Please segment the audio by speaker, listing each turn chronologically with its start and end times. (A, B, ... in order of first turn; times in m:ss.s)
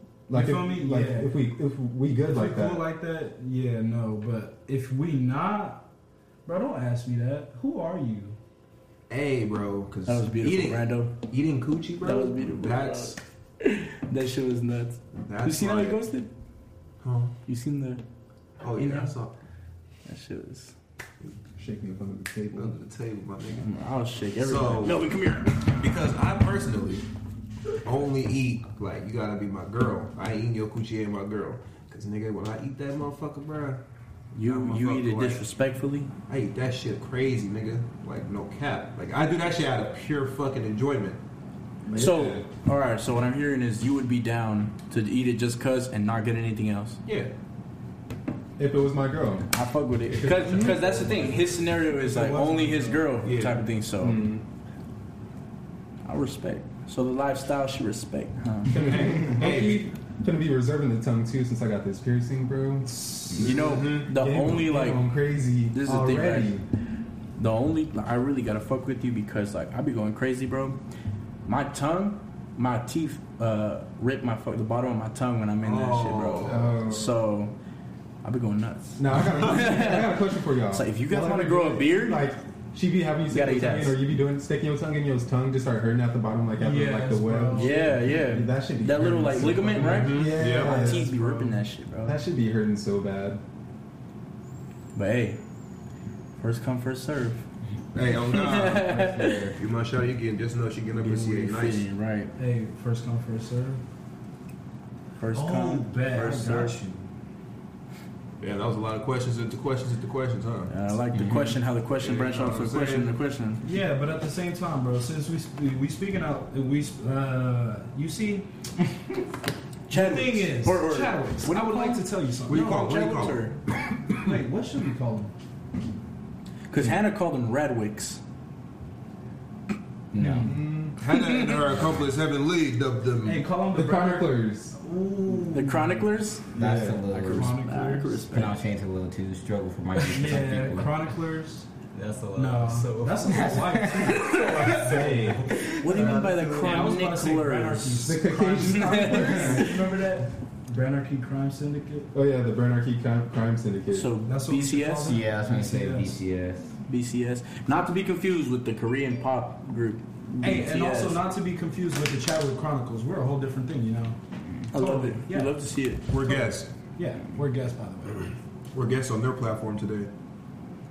0:00.3-0:02.9 A
0:00.3-0:01.4 B
0:02.2-0:05.8 B
0:06.5-0:08.4 B
0:09.1-0:13.2 C
0:10.1-0:11.2 D
0:12.0-0:16.3 D
0:15.2-0:16.0 C
0:17.0-0:17.3 C
0:17.5-0:18.0 D
0:18.6-0:19.4 C
0:18.8-0:19.2 D
0:20.1-0:20.7 D
0:21.6-0:22.8 A
0:22.5-0:23.7 C
0:23.6-0:25.7 D
0:24.4-0:25.0 C
0:25.8-0:27.1 C
0:27.8-0:33.8 C
0:34.3-0:36.1 D
0:34.4-0:35.4 C
0:36.3-0:41.2 C
0:41.8-0:42.5 A
0:41.9-0:47.0 D
0:47.0-0:47.3 C
0:48.6-0:49.5 A
0:49.5-0:54.3 D
0:50.1-0:51.5 A
0:51.8-0:53.2 B
0:53.2-0:53.6 C
0:54.0-0:54.4 A
0:56.0-0:59.0 D
0:58.7-1:06.6 A
0:59.2-0:59.9 C
1:02.9-1:03.5 B
1:03.4-1:05.1 D
1:03.4-1:04.1 C
1:05.7-1:06.5 D
1:07.4-1:10.8 D
1:11.5-1:17.6 D
1:15.6-1:16.8 C
1:16.5-1:17.1 A
1:18.2-1:22.3 D
1:19.0-1:31.1 A
1:23.3-1:24.1 D
1:26.6-1:28.1 B
1:27.6-1:32.2 D
1:29.4-1:31.5 B
1:29.8-1:31.0 C
1:32.0-1:33.4 A
1:35.0-1:35.4 D
1:36.4-1:37.4 D
1:37.9-1:39.0 C
1:38.3-1:39.4 D
1:38.5-1:39.6 E
1:39.6-1:41.9 C
1:41.0-1:42.3 D
1:42.4-1:43.8 B
1:45.2-1:46.8 D
1:45.3-1:47.1 B
1:48.4-1:50.7 C
1:50.7-1:53.6 D
1:51.2-1:51.5 E
1:52.0-1:53.2 C
1:53.6-1:58.5 B
1:59.9-2:03.6 D
1:59.9-2:03.1 B
2:02.5-2:03.6 C
2:04.2-2:05.3 B
2:06.7-2:08.2 D
2:10.1-2:10.6 E
2:10.2-2:10.6 B
2:10.4-2:11.0 A
2:11.0-2:13.5 C
2:11.1-2:11.7 D
2:13.2-2:16.1 B
2:13.7-2:14.8 A
2:15.5-2:16.4 D
2:16.6-2:17.6 E
2:16.6-2:17.1 A
2:17.2-2:18.2 B
2:17.3-2:18.6 D
2:18.3-2:20.9 E
2:20.0-2:21.7 B
2:20.3-2:20.7 F
2:21.9-2:26.7 F
2:22.4-2:25.1 B
2:23.3-2:24.4 E
2:24.7-2:25.5 A
2:25.8-2:28.1 D
2:25.8-2:26.4 E
2:26.0-2:32.1 B
2:28.0-2:30.0 A
2:28.6-2:29.6 D
2:32.1-2:34.1 A
2:33.9-2:35.2 D
2:34.3-2:36.2 B
2:35.0-2:36.7 E
2:36.9-2:41.2 D
2:40.4-2:44.2 B
2:44.7-2:46.1 D
2:44.7-2:45.6 B
2:46.1-2:46.7 C
2:46.2-2:48.3 B
2:48.7-2:50.1 C